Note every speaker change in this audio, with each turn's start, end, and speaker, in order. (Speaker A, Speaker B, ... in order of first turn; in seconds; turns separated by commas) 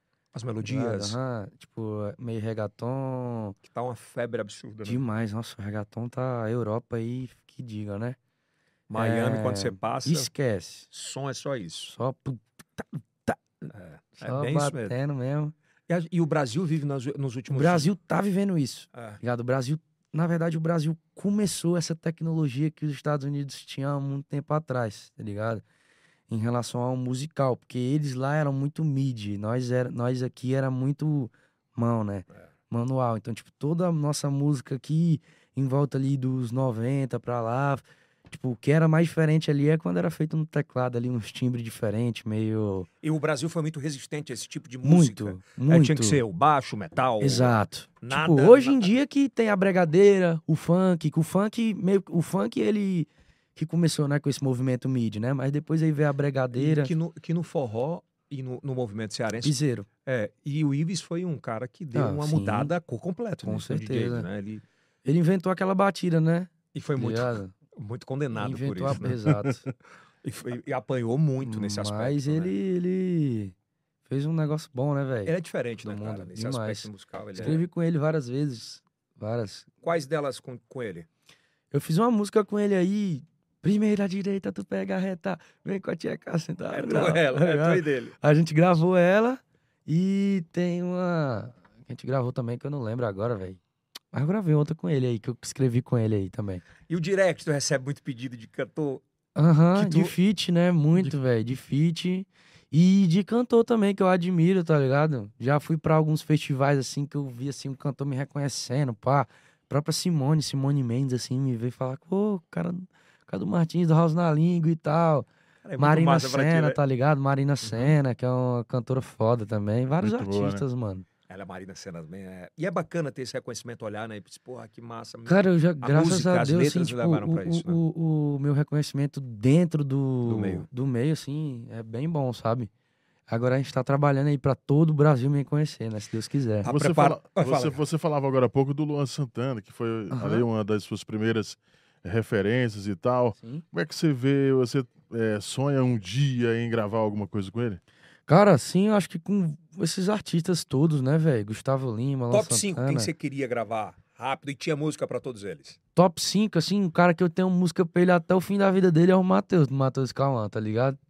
Speaker A: 0.3-1.2, Speaker B: 0.6-3.6, Speaker A: 3.6-5.0, Speaker B: 4.8-8.2, Speaker A: 8.9-10.3, Speaker B: 8.9-10.9, Speaker A: 10.9-11.9, Speaker B: 11.9-13.7, Speaker A: 13.7-14.9, Speaker B: 14.2-15.5, Speaker A: 15.9-17.9, Speaker B: 17.5-25.6, Speaker A: 18.9-19.2, Speaker B: 26.3-42.9, Speaker A: 43.0-48.9, Speaker B: 44.8-46.2, Speaker B: 47.2-56.9, Speaker A: 56.5-64.6, Speaker B: 59.4-59.9, Speaker B: 61.9-62.7, Speaker B: 63.4-64.3, Speaker B: 65.0-67.5, Speaker A: 66.7-69.4, Speaker B: 68.4-69.7, Speaker A: 70.2-72.5, Speaker B: 71.4-73.5, Speaker B: 74.1-79.7, Speaker A: 75.2-77.6, Speaker A: 79.8-81.0, Speaker B: 81.7-93.6, Speaker A: 86.7-88.1, Speaker B: 94.1-96.6, Speaker A: 96.9-99.0, Speaker B: 99.3-115.3, Speaker A: 99.7-100.1, Speaker A: 115.6-116.8, Speaker B: 115.8-121.0, Speaker A: 117.6-117.9, Speaker C: 120.0-120.6, Speaker A: 121.3-127.8, Speaker B: 125.3-132.7, Speaker A: 130.2-130.7, Speaker B: 133.3-136.7, Speaker A: 136.6-137.8, Speaker C: 136.7-147.8, Speaker B: 140.1-140.4, Speaker B: 148.3-153.1, Speaker A: 152.3-155.8, Speaker B: 155.9-161.0